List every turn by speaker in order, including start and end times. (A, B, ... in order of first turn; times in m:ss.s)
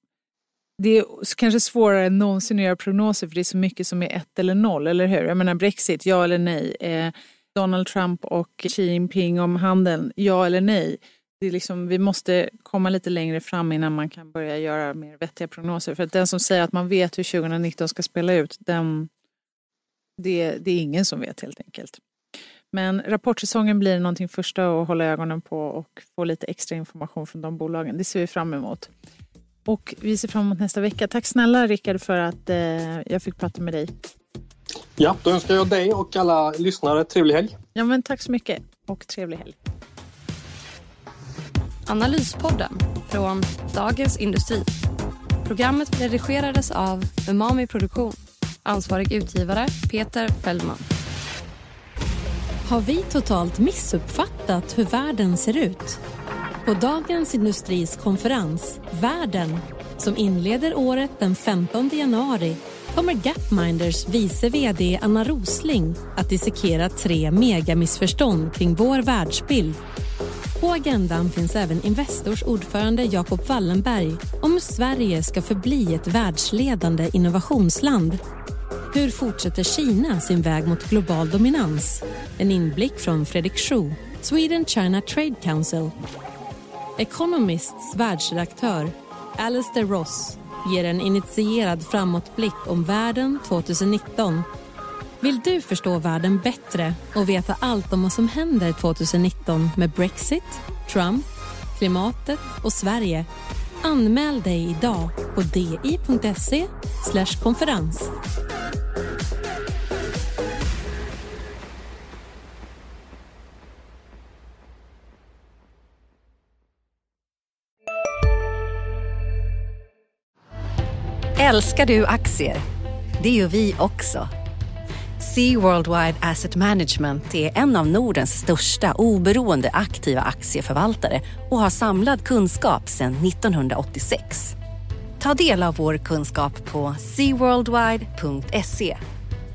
0:00.8-0:19.1 A
0:20.2-0:22.0 A
0:22.7-0:28.9 A
0:29.6-0:33.9 A
0:35.0-0:37.6 B
0:37.7-0:39.6 A
0:41.9-0:44.7 C
0:45.4-0:50.8 C
0:52.6-0:56.0 D
0:56.6-1:09.8 D
1:10.6-1:18.2 D
1:18.9-1:25.9 D
1:27.0-1:34.5 D
1:35.2-1:43.3 D
1:43.8-1:48.1 D
2:01.4-2:02.6 E
2:03.2-2:04.3 E
2:05.2-2:14.6 E
2:15.2-2:19.0 E